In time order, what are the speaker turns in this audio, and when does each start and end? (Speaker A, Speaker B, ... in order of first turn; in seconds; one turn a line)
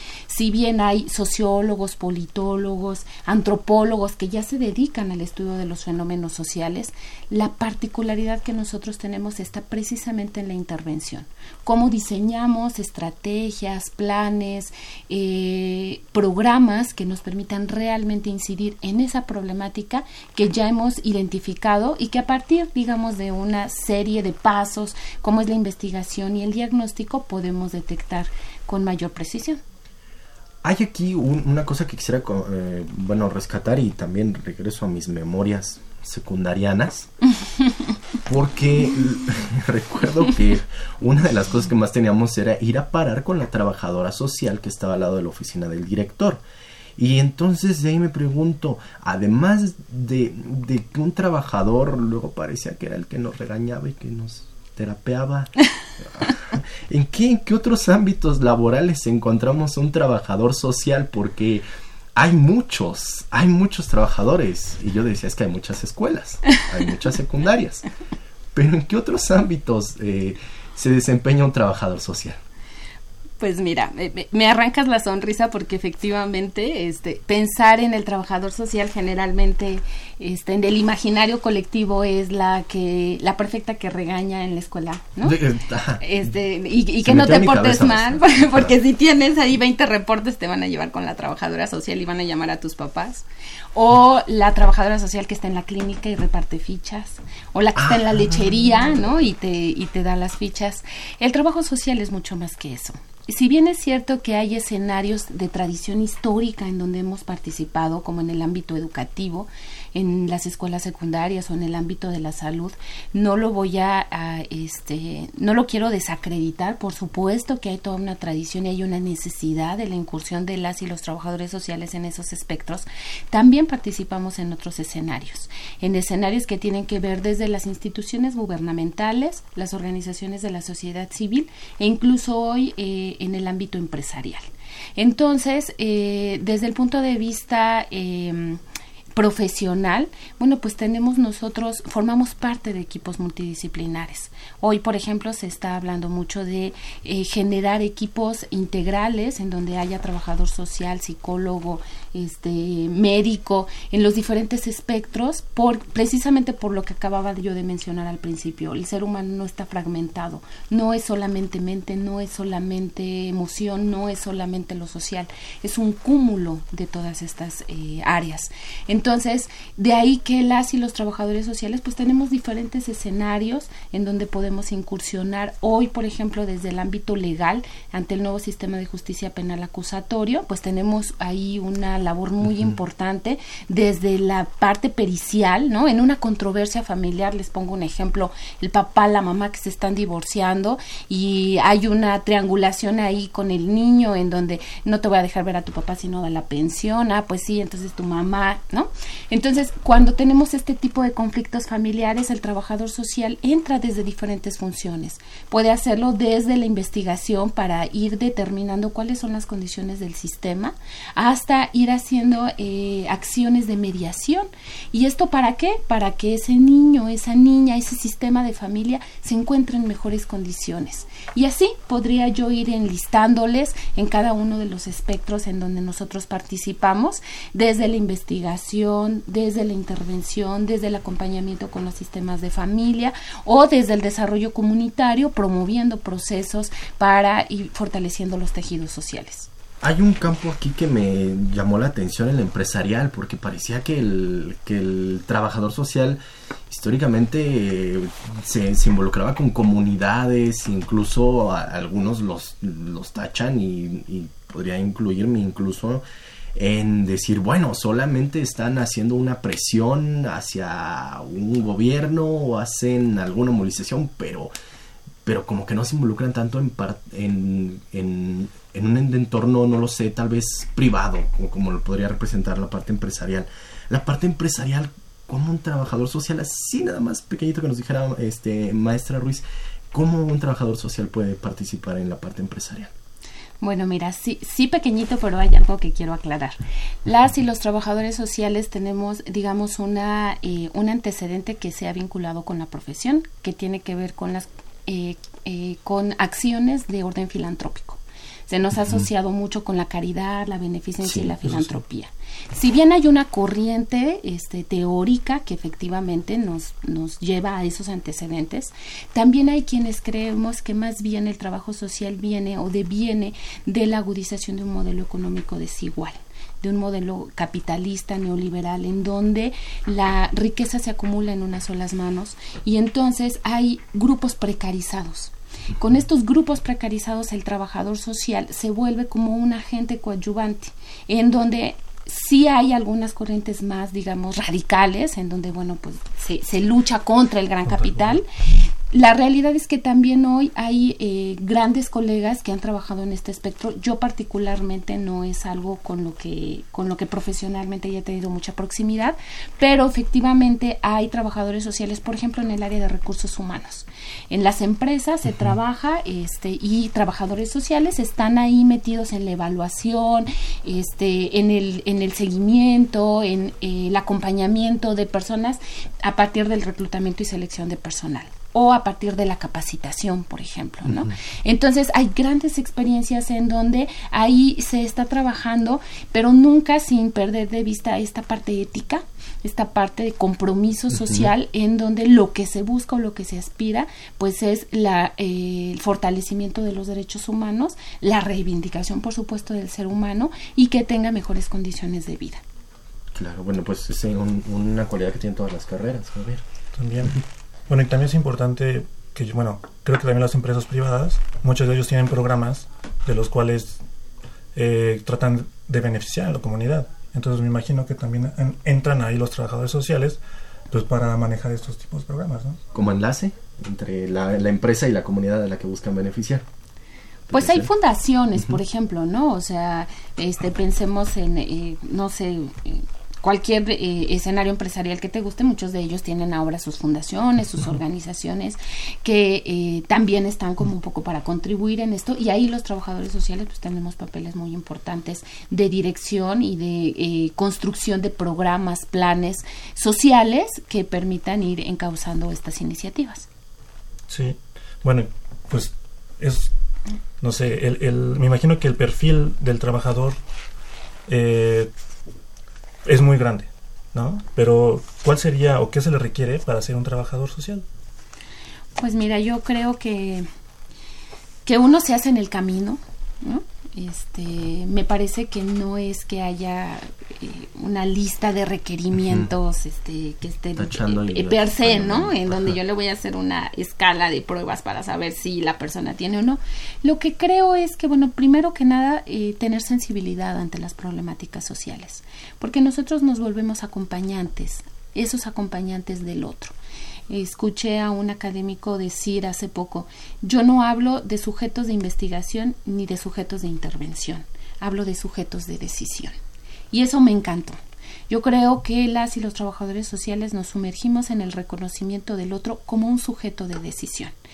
Speaker A: 0.3-29.6
Speaker B: 30.6-37.1
Speaker B: 38.2-46.4
Speaker B: 47.0-67.8
Speaker B: 68.5-72.4
Speaker A: 73.4-85.4
Speaker B: 85.2-86.2
Speaker A: 86.0-138.6
Speaker B: 87.0-88.7
Speaker B: 97.8-98.6
Speaker A: 139.1-239.5
Speaker B: 239.8-256.0
Speaker B: 256.5-264.5
Speaker B: 265.2-282.9
Speaker A: 283.6-338.3
Speaker B: 298.8-299.1
Speaker B: 301.0-301.8
Speaker A: 338.9-392.4
Speaker B: 370.8-371.1
Speaker B: 380.9-381.3
Speaker B: 393.1-396.4
Speaker C: 396.7-403.8
Speaker C: 404.5-410.2
Speaker C: 410.7-412.6
Speaker B: 412.7-416.4
Speaker B: 417.3-417.7
Speaker A: 417.3-443.3
Speaker C: 444.1-446.5
Speaker C: 447.2-450.2
Speaker C: 451.1-451.7
Speaker C: 452.8-457.6
Speaker A: 458.8-460.3
Speaker A: 461.4-486.5
Speaker B: 468.9-469.3
Speaker B: 470.6-472.6
Speaker A: 487.1-496.1
Speaker A: 496.7-497.6
Speaker A: 498.1-504.1